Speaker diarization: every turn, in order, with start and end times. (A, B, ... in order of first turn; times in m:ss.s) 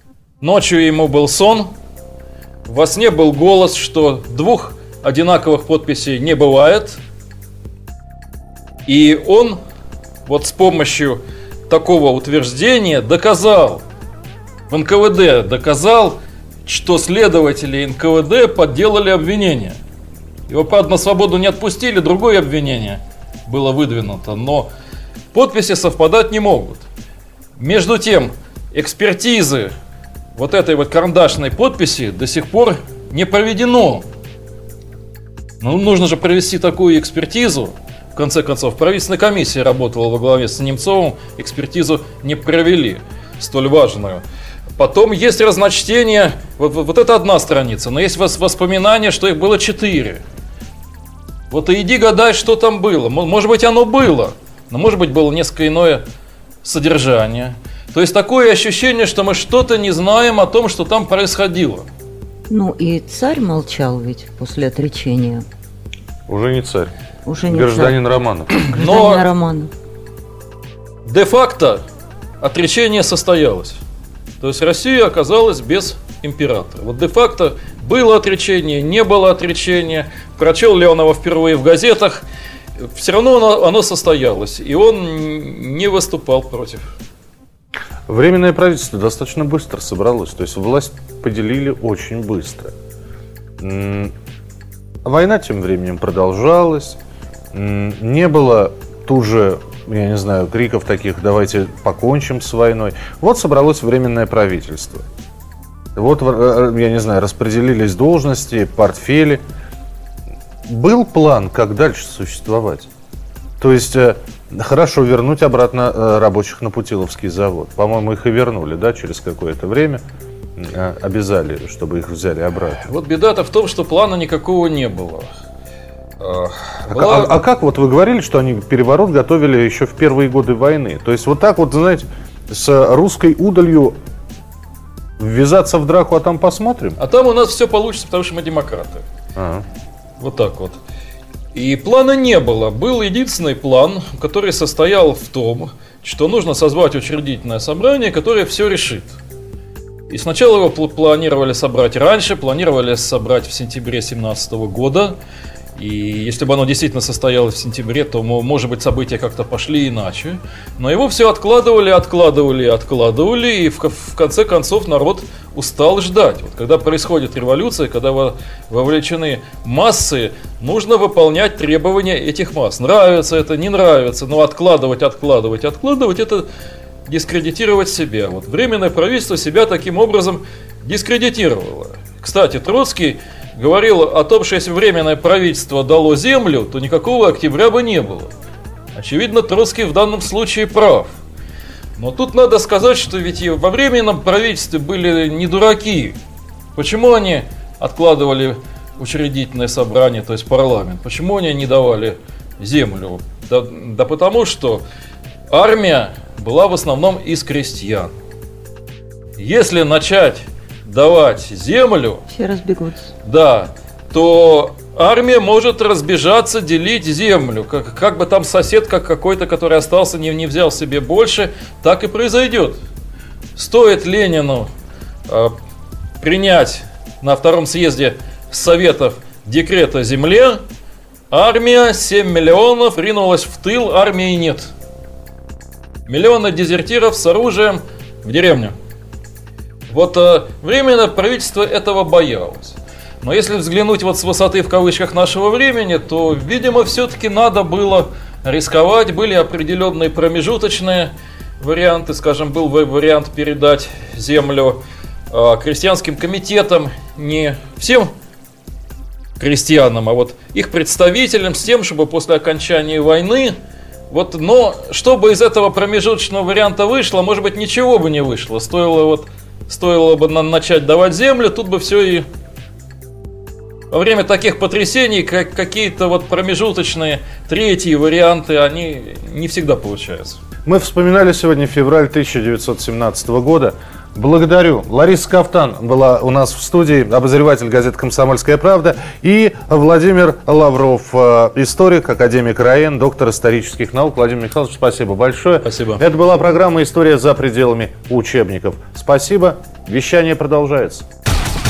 0:00.4-0:01.7 A
0:02.6-0:07.0 A
0:08.8-0:09.6 A
0:10.2-0:13.8 A
0:14.7-0:19.8 A
0:20.5-0:24.7 A
0:25.3-0:26.8 A
0:27.6-0:29.7 A
0:30.4-0:34.0 A
0:35.6-0:44.2 A
0:44.8-0:50.2 A
0:51.5-0:56.0 A
0:56.6-1:01.9 A
1:02.5-1:05.4 B
1:06.3-1:06.9 C
1:07.2-1:08.0 B
1:07.5-1:08.5 C
1:08.6-1:09.7 B
1:08.6-1:09.2 A
1:11.0-1:11.8 A
1:12.4-1:13.8 A
1:14.4-1:22.2 A
1:22.8-1:26.9 A
1:28.1-1:32.7 C
1:33.6-1:34.1 C
1:35.0-1:37.0 C
1:37.5-1:45.0 C
1:45.9-1:49.4 C
1:50.7-1:52.9 C
1:53.6-2:00.0 C
2:00.6-2:02.8 C
2:02.8-2:05.3 A
2:06.2-2:07.4 A
2:06.9-2:14.0 C
2:15.2-2:17.0 C
2:17.0-2:19.0 A
2:19.4-2:19.6 C
2:20.2-2:20.8 A
2:21.5-2:29.2 A
2:30.1-2:35.2 A
2:35.8-2:56.4 A
2:57.0-3:08.3 A
3:08.9-3:11.2 A
3:12.0-3:16.2 A
3:16.8-3:24.8 A
3:25.5-3:28.1 A
3:29.4-3:32.2 A
3:32.3-3:33.1 B
3:33.2-3:42.8 A
3:43.6-3:44.7 A
3:45.3-3:45.5 A
3:46.2-3:50.6 A
3:51.3-3:54.7 A
3:56.1-3:58.7 A
3:59.9-4:18.1 A
4:19.4-4:23.5 A
4:24.1-4:32.2 A
4:33.9-4:40.4 A
4:40.6-5:01.0 C
4:55.6-4:56.0 A